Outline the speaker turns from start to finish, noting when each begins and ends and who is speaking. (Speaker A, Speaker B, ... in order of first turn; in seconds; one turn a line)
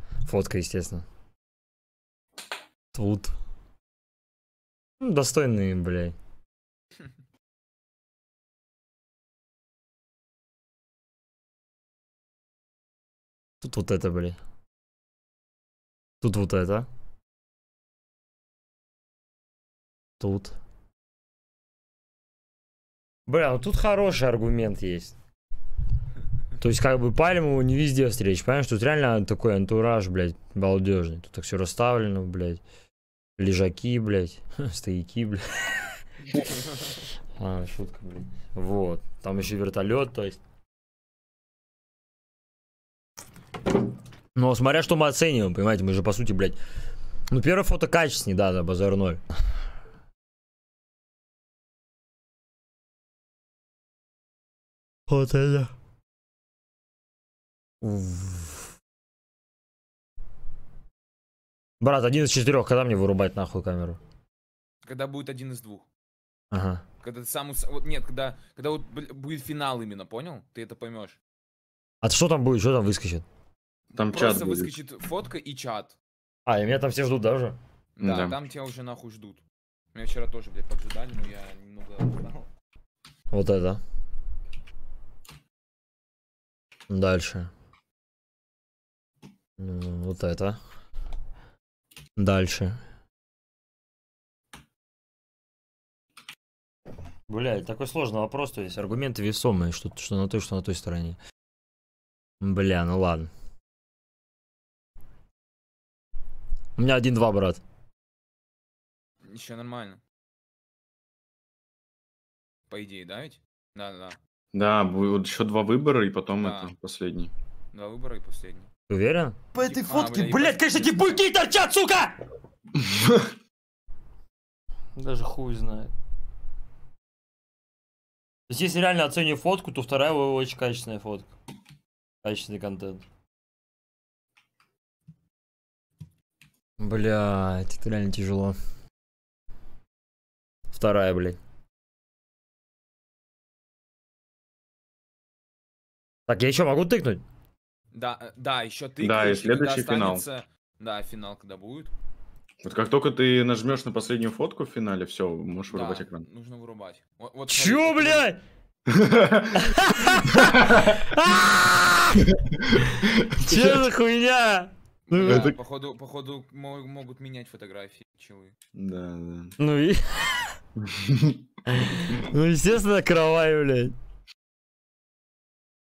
Speaker A: 0.2-1.0
Speaker A: 2.9-3.4
Speaker A: 5.0-6.2
Speaker A: 13.6-14.4
Speaker A: 16.2-16.9
Speaker A: 20.2-20.6
Speaker A: 23.3-25.1
Speaker A: 26.6-32.6
Speaker A: 33.4-35.8
Speaker A: 37.4-40.4
Speaker A: 44.3-46.6
Speaker A: 47.3-49.2
Speaker A: 55.1-55.7
Speaker A: 57.8-58.7
Speaker A: 61.8-64.0
Speaker B: 64.8-65.9
Speaker A: 66.5-66.8
Speaker B: 67.0-71.2
Speaker A: 72.0-73.2
Speaker C: 73.9-74.7
Speaker B: 74.1-76.0
Speaker A: 76.5-77.6
Speaker B: 78.0-79.4
Speaker C: 78.0-78.4
Speaker B: 79.9-82.5
Speaker A: 83.3-83.8
Speaker A: 86.9-87.5
Speaker A: 89.6-90.6
Speaker A: 92.2-92.8
Speaker A: 97.3-101.2
Speaker A: 102.4-103.3
Speaker A: 106.8-107.6
Speaker B: 109.2-110.0
Speaker B: 112.7-114.2
Speaker C: 114.5-117.3
Speaker B: 116.4-116.7
Speaker B: 117.7-118.7
Speaker A: 118.9-122.2
Speaker B: 119.6-120.9
Speaker C: 122.8-123.3
Speaker A: 125.0-125.9
Speaker A: 128.5-131.3
Speaker A: 132.2-133.0
Speaker A: 136.8-138.6
Speaker A: 140.7-141.4
Speaker A: 146.3-147.2
Speaker B: 147.9-151.9
Speaker C: 149.0-150.2
Speaker C: 152.6-156.2
Speaker B: 155.7-158.3
Speaker A: 157.5-158.4
Speaker C: 158.9-159.7
Speaker A: 159.5-162.3
Speaker C: 160.3-160.9
Speaker C: 162.3-163.8
Speaker A: 163.3-165.5
Speaker B: 165.1-168.5
Speaker C: 165.2-165.6
Speaker C: 168.7-169.6
Speaker A: 169.6-170.5
Speaker C: 170.8-171.4
Speaker A: 171.7-173.9